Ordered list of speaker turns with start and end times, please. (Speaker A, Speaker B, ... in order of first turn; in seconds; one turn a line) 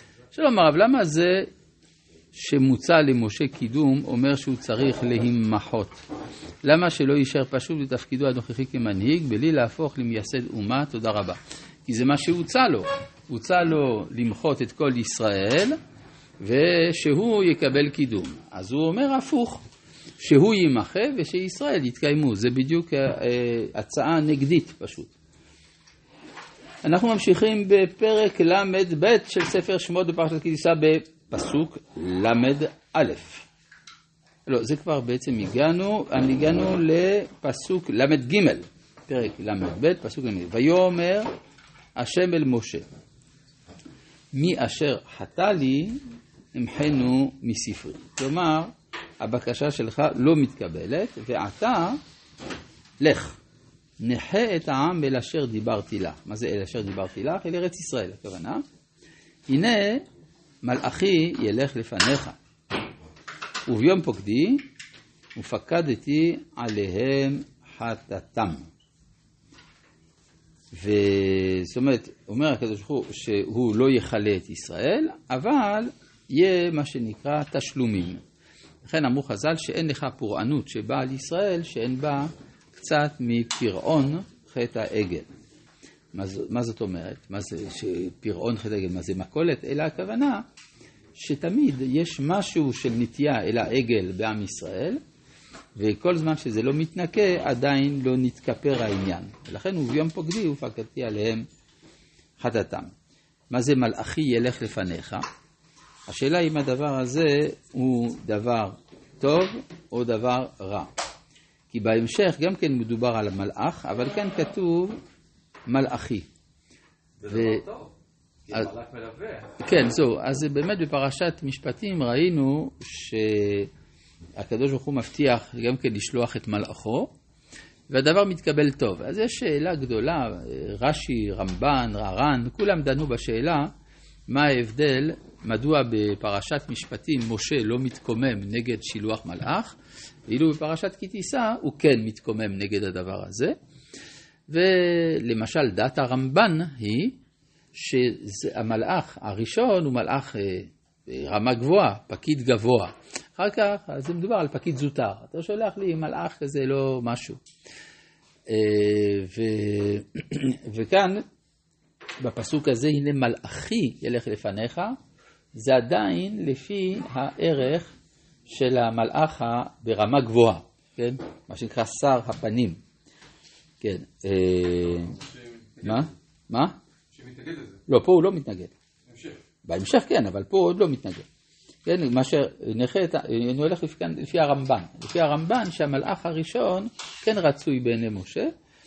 Speaker A: 0.3-1.5
Speaker A: 2.3-6.0
Speaker A: 6.6-15.8
Speaker A: 16.4-19.6
Speaker A: 20.2-25.1
Speaker A: 26.8-33.5
Speaker A: 34.5-41.3
Speaker A: 42.0-42.9
Speaker A: 44.3-46.0
Speaker A: 46.5-52.0
Speaker A: 53.0-53.4
Speaker A: 54.0-58.6
Speaker A: 59.5-60.0
Speaker A: 60.6-62.4
Speaker A: 63.7-64.6
Speaker A: 65.3-68.7
Speaker A: 70.7-78.2
Speaker A: 78.8-85.3
Speaker A: 86.1-90.4
Speaker A: 91.2-95.0
Speaker A: 95.8-101.5
Speaker A: 102.4-102.9
Speaker A: 103.5-105.2
Speaker A: 106.1-110.9
Speaker A: 111.7-115.0
Speaker A: 115.7-116.3
Speaker B: 117.2-117.9
Speaker A: 117.3-117.7
Speaker B: 118.5-119.6
Speaker A: 119.6-123.7
Speaker A: 124.4-127.1
Speaker A: 127.9-133.7
Speaker A: 134.3-139.8
Speaker A: 140.3-143.5
Speaker A: 144.5-147.2
Speaker A: 147.7-157.4
Speaker A: 158.5-161.2
Speaker A: 162.2-165.0
Speaker A: 165.5-167.9
Speaker A: 168.5-172.8
Speaker A: 173.8-175.2
Speaker B: 175.1-176.1
Speaker A: 175.8-176.8
Speaker B: 177.1-177.8
Speaker A: 177.9-178.7
Speaker B: 179.1-179.4
Speaker A: 179.7-181.2
Speaker A: 181.8-188.5